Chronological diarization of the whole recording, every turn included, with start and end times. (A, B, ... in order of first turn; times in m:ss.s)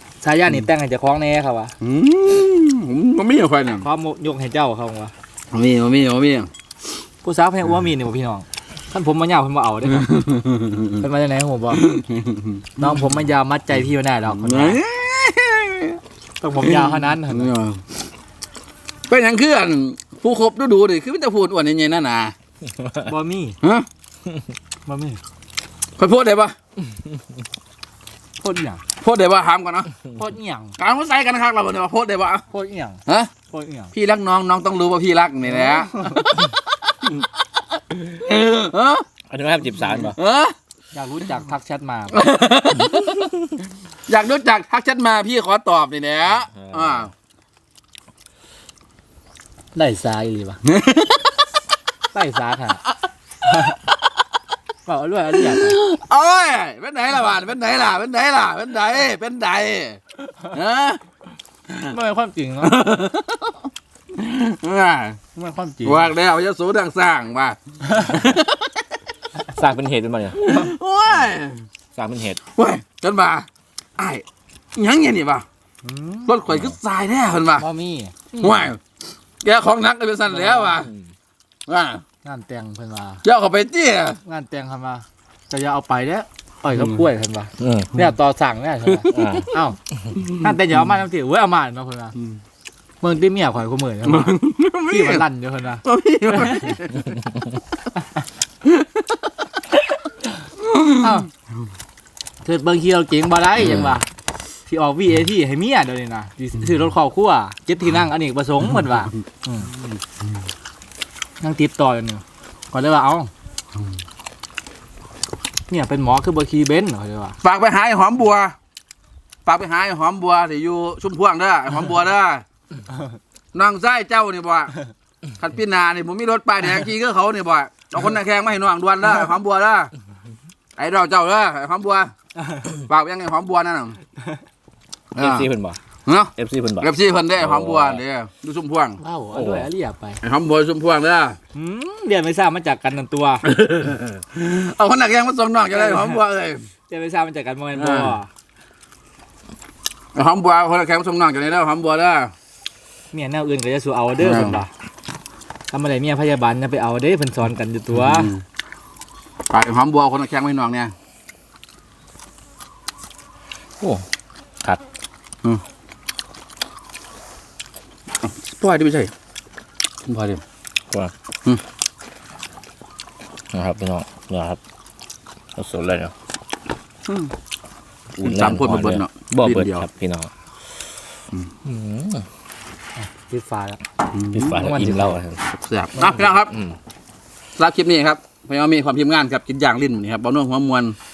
0:00.2-0:01.7 A
0:01.8-0:03.9 B
0:03.8-0:05.1 A
0:05.5-0:06.5 B
0:07.2-0:10.1 A
0:10.0-0:10.9 B
0:11.0-0:11.9 A
0:11.8-0:12.6 B
0:12.8-0:14.8 A
0:14.3-0:16.0 B
0:16.4-0:17.5 A
0:16.6-0:17.8 B
0:19.1-0:22.3 B
0:23.0-0:23.6 A
0:23.6-0:23.9 B
0:24.8-0:25.2 A
0:26.0-0:26.5 B
0:28.4-0:28.8 A
0:29.0-0:29.9 B
0:30.1-0:30.8 A
0:30.8-0:32.4 B
0:32.5-0:33.9 A
0:33.9-0:36.5 B
0:35.6-0:36.2 A
0:38.1-0:39.0 B
0:39.3-0:40.2 C
0:40.0-0:40.5 B
0:40.9-0:42.2 A
0:42.1-0:43.3 B
0:44.1-0:47.1 B
0:46.5-0:47.1 C
0:49.7-0:50.6 A
0:50.7-0:51.3 B
0:52.1-0:52.8 A
0:53.4-0:53.8 A
0:54.8-0:55.8 A
0:55.4-1:00.0 B
1:00.5-1:01.0 B
1:01.9-1:02.8 A
1:02.6-1:03.6 B
1:04.1-1:05.2 B
1:05.3-1:06.1 A
1:05.8-1:08.7 B
1:09.5-1:10.4 C
1:10.3-1:11.6 B
1:12.0-1:12.4 C
1:12.5-1:13.5 B
1:14.0-1:14.2 B
1:14.7-1:15.4 B
1:15.8-1:16.3 A
1:16.2-1:17.6 B
1:17.6-1:18.3 A
1:18.4-1:18.8 B
1:19.4-1:20.9 B
1:21.7-1:22.0 B
1:22.2-1:23.2 A
1:23.2-1:24.2 B
1:24.2-1:32.1 A
1:27.6-1:27.9 C
1:29.1-1:29.5 C
1:33.0-1:35.8 A
1:34.1-1:35.2 B
1:35.8-1:37.1 B
1:36.3-1:36.7 A
1:38.6-1:39.0 B
1:40.7-1:41.1 B
1:41.0-1:41.3 A
1:42.4-1:44.1 A
1:44.6-1:49.7 A
1:51.4-1:53.3 A
1:55.7-1:57.4 A
1:57.4-1:58.5 B
1:59.4-2:02.4 B
2:03.5-2:04.7 B
2:05.4-2:09.9 B
2:10.8-2:12.1 B
2:12.7-2:14.0 B
2:15.1-2:15.5 B
2:15.2-2:15.8 C
2:16.0-2:19.0 B
2:16.4-2:18.0 C
2:19.0-2:20.2 A
2:19.3-2:19.7 C
2:20.2-2:21.4 B
2:21.5-2:23.4 A
2:23.4-2:26.7 B
2:25.7-2:26.2 A
2:26.9-2:28.3 A
2:27.8-2:28.1 B
2:30.1-2:32.3 B
2:33.1-2:34.7 A
2:34.2-2:34.6 B
2:35.7-2:38.3 A
2:37.9-2:38.4 B
2:39.5-2:40.9 B
2:43.8-2:44.0 C
2:48.2-2:49.1 B
2:50.1-2:50.4 B
2:53.5-2:54.6 C
2:55.6-2:56.1 C
2:58.2-2:59.8 B
2:58.2-3:00.3 C
3:01.6-3:02.2 C
3:03.0-3:03.8 A
3:04.1-3:04.7 B
3:04.3-3:05.4 C
3:04.5-3:05.2 A
3:05.4-3:06.5 B
3:06.0-3:06.3 A
3:06.5-3:06.8 C
3:07.6-3:11.0 B